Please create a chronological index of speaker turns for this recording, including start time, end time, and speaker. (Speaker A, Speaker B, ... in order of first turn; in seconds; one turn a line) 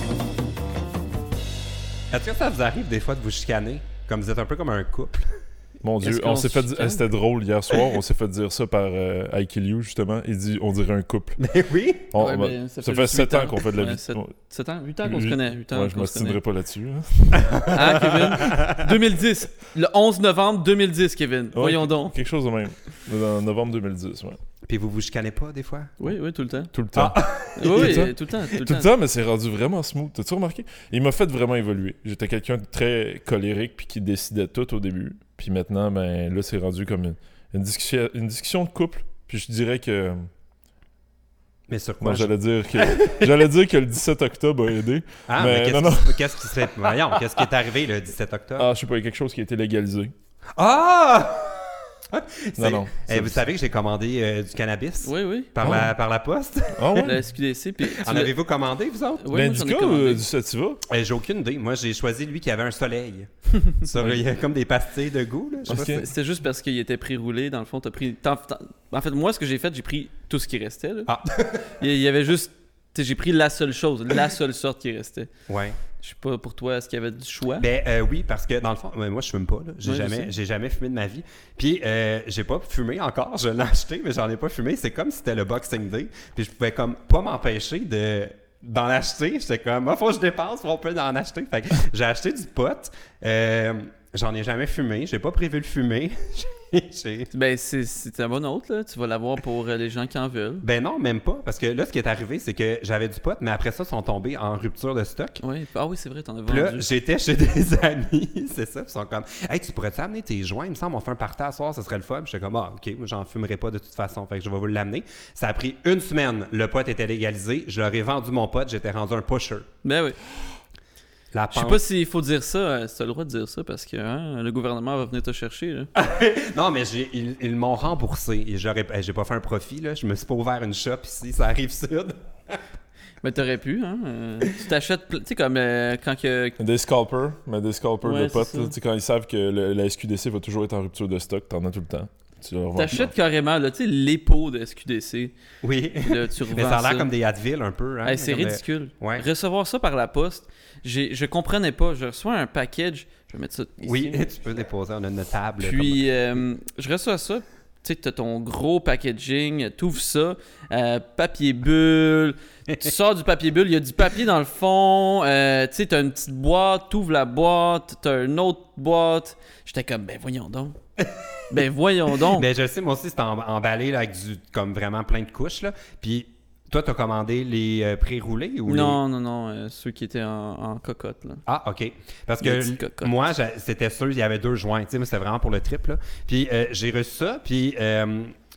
Speaker A: 2.1-5.3
Speaker B: 5.8-11.4
Speaker C: 6.0-7.0
Speaker A: 11.4-12.1
Speaker B: 12.1-14.3
Speaker C: 12.2-16.4
Speaker B: 15.0-17.6
Speaker A: 17.3-18.9
Speaker C: 17.7-22.1
Speaker B: 21.5-24.4
Speaker A: 24.7-25.9
Speaker C: 26.0-26.7
Speaker B: 26.7-40.3
Speaker A: 26.9-28.1
Speaker C: 27.6-28.9
Speaker A: 41.7-43.4
Speaker B: 42.0-47.4
Speaker A: 45.3-48.7
Speaker B: 48.6-50.1
Speaker A: 50.5-57.1
Speaker B: 52.6-53.4
Speaker C: 55.0-55.5
Speaker B: 55.6-55.9
Speaker B: 56.7-57.2
Speaker C: 57.0-58.3
Speaker A: 57.8-59.3
Speaker C: 59.2-60.2
Speaker B: 59.3-60.8
Speaker A: 60.9-66.0
Speaker B: 65.7-66.1
Speaker C: 65.7-71.1
Speaker A: 71.1-71.8
Speaker C: 71.8-75.3
Speaker A: 75.5-75.8
Speaker C: 76.0-77.7
Speaker A: 77.6-97.3
Speaker C: 79.8-80.3
Speaker C: 97.3-100.6
Speaker A: 100.6-105.4
Speaker C: 105.4-106.8
Speaker A: 106.5-119.7
Speaker C: 119.8-120.2
Speaker A: 121.3-121.8
Speaker C: 121.5-125.9
Speaker A: 125.9-132.6
Speaker C: 133.2-136.6
Speaker B: 136.6-143.1
Speaker C: 138.0-138.7
Speaker C: 142.8-145.3
Speaker A: 145.6-149.2
Speaker C: 146.0-147.1
Speaker C: 148.0-154.3
Speaker A: 153.8-156.1
Speaker C: 155.6-170.8
Speaker C: 171.5-172.5
Speaker A: 172.2-179.0
Speaker C: 178.7-181.4
Speaker A: 181.4-188.3
Speaker C: 182.4-183.2